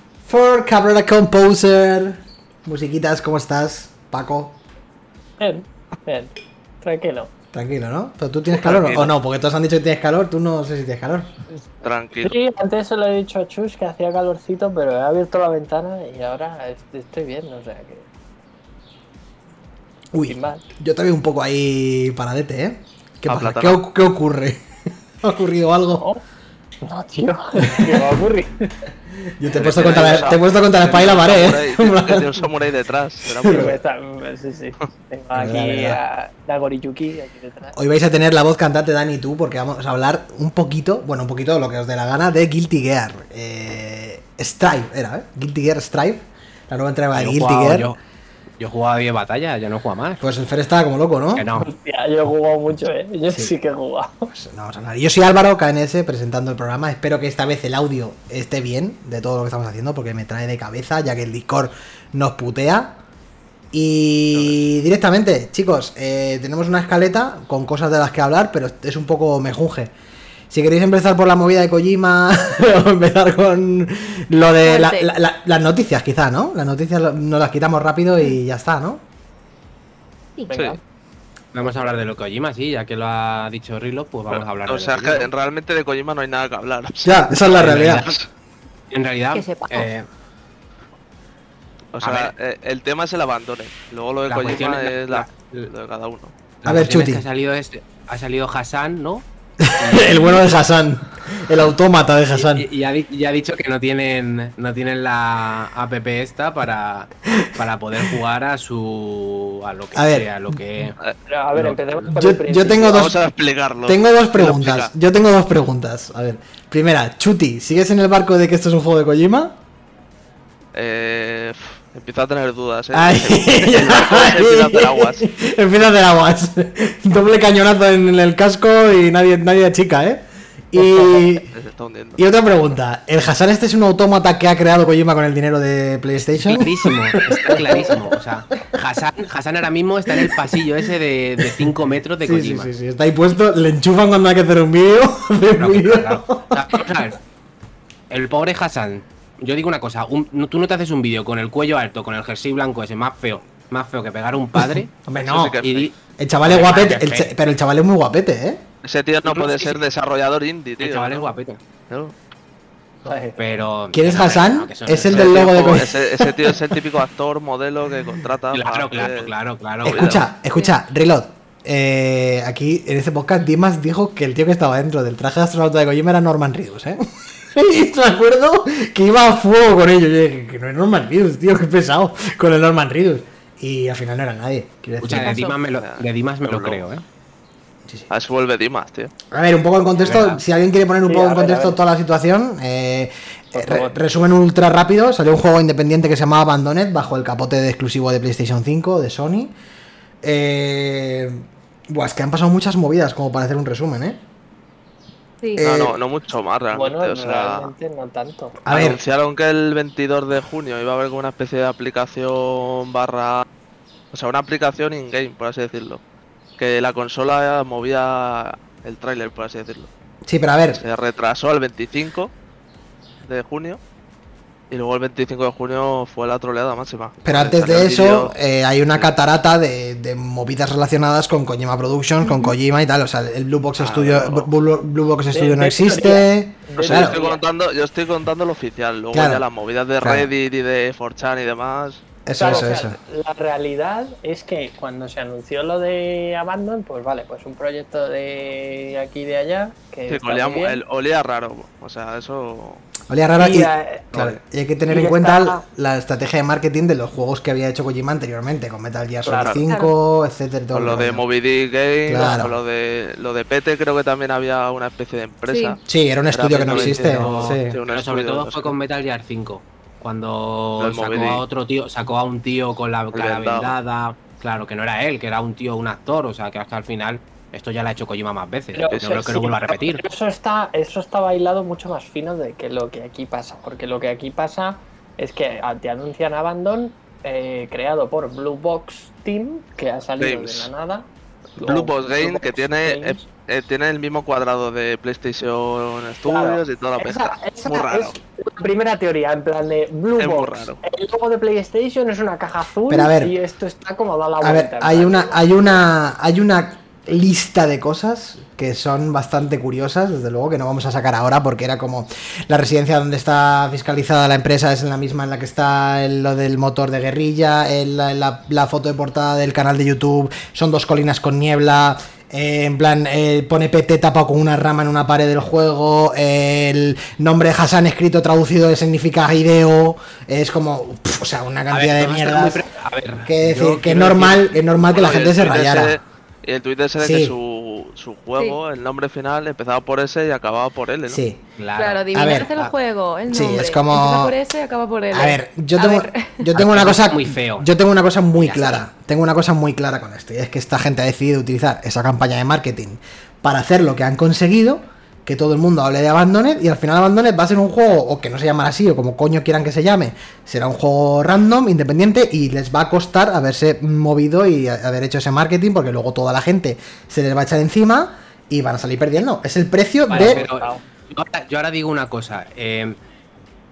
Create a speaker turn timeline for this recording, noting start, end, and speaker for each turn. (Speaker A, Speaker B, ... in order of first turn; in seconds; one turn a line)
Speaker A: 0.2-4.6
Speaker B: 5.4-7.3
Speaker A: 7.5-11.3
Speaker C: 8.6-9.1
Speaker C: 11.8-12.3
Speaker B: 12.2-18.1
Speaker A: 20.1-24.6
Speaker B: 20.2-20.6
Speaker C: 23.3-23.8
Speaker A: 25.2-26.0
Speaker B: 26.8-28.9
Speaker A: 27.7-28.1
Speaker A: 29.2-32.4
Speaker C: 29.5-33.8
Speaker D: 29.6-30.4
Speaker A: 33.2-33.8
Speaker B: 33.4-37.8
Speaker A: 35.3-36.0
Speaker A: 37.7-47.9
Speaker D: 47.1-48.0
Speaker D: 48.6-50.2
Speaker A: 50.2-51.5
Speaker D: 51.4-51.7
Speaker B: 51.6-54.3
Speaker A: 54.3-63.0
Speaker A: 63.7-69.9
Speaker C: 64.3-64.6
Speaker A: 70.5-79.0
Speaker E: 74.6-75.1
Speaker B: 80.5-80.8
Speaker C: 80.5-80.8
Speaker D: 81.5-85.3
Speaker C: 84.3-88.3
Speaker A: 87.0-88.0
Speaker D: 87.5-88.2
Speaker D: 88.9-90.1
Speaker E: 89.3-89.9
Speaker C: 91.9-96.3
Speaker D: 92.0-92.3
Speaker D: 94.3-95.7
Speaker D: 96.6-100.3
Speaker A: 96.6-97.2
Speaker A: 99.6-102.7
Speaker E: 100.0-100.3
Speaker D: 102.3-111.0
Speaker A: 109.9-110.9
Speaker B: 111.3-113.1
Speaker D: 111.5-111.9
Speaker A: 112.1-113.2
Speaker C: 112.9-114.9
Speaker A: 113.8-119.6
Speaker C: 120.7-125.2
Speaker A: 122.9-131.5
Speaker C: 131.5-132.2
Speaker A: 132.2-138.2
Speaker D: 136.3-142.7
Speaker A: 140.1-140.5
Speaker A: 141.4-141.7
Speaker A: 142.2-146.8
Speaker D: 145.6-147.2
Speaker D: 148.1-157.3
Speaker A: 154.6-155.6
Speaker C: 155.2-155.9
Speaker A: 156.2-158.6
Speaker C: 158.8-161.3
Speaker D: 159.2-159.8
Speaker D: 160.8-161.6
Speaker C: 161.9-162.1
Speaker B: 163.0-163.4
Speaker D: 163.4-165.7
Speaker A: 163.9-166.5
Speaker C: 165.1-169.3
Speaker D: 168.5-170.2
Speaker C: 169.8-170.2
Speaker A: 169.8-185.5
Speaker D: 185.0-187.0
Speaker E: 185.2-185.6
Speaker C: 185.7-186.8
Speaker C: 188.1-189.1
Speaker A: 189.3-199.5
Speaker D: 190.0-190.4
Speaker B: 191.0-191.8
Speaker B: 193.5-194.0
Speaker A: 200.2-204.2
Speaker A: 205.6-205.9
Speaker C: 205.6-207.7
Speaker B: 206.7-208.6
Speaker A: 208.6-209.0
Speaker C: 208.7-213.4
Speaker C: 214.1-216.0
Speaker C: 216.6-219.9
Speaker A: 220.2-220.8
Speaker C: 220.8-222.3
Speaker C: 223.2-223.8
Speaker C: 224.7-228.3
Speaker A: 227.2-237.2
Speaker E: 232.2-232.6
Speaker C: 233.8-234.5
Speaker B: 235.3-237.4
Speaker C: 236.8-242.7
Speaker A: 239.1-239.4
Speaker A: 240.0-240.3
Speaker A: 242.2-242.9
Speaker B: 242.4-250.8
Speaker C: 250.1-252.8
Speaker A: 253.1-261.2
Speaker B: 253.4-254.1
Speaker B: 254.9-255.6
Speaker B: 259.2-259.6
Speaker C: 260.7-265.8
Speaker A: 262.1-262.6
Speaker E: 265.5-265.8
Speaker A: 265.9-267.8
Speaker C: 266.3-268.7
Speaker D: 266.7-280.0
Speaker C: 270.8-271.4
Speaker C: 273.1-273.7
Speaker B: 278.7-293.3
Speaker C: 278.9-279.4
Speaker C: 290.2-290.7
Speaker C: 291.6-298.1
Speaker B: 296.2-305.8
Speaker C: 300.2-300.8
Speaker A: 302.9-303.3
Speaker A: 304.4-332.6
Speaker D: 331.7-334.5
Speaker A: 333.2-336.0
Speaker C: 334.9-341.2
Speaker A: 337.0-337.3
Speaker A: 341.1-341.4
Speaker D: 341.6-342.7
Speaker E: 341.8-346.4
Speaker A: 342.1-342.5
Speaker A: 343.3-344.3
Speaker A: 345.1-370.4
Speaker D: 346.5-347.7
Speaker D: 348.4-348.8
Speaker B: 370.1-370.8
Speaker D: 370.1-373.0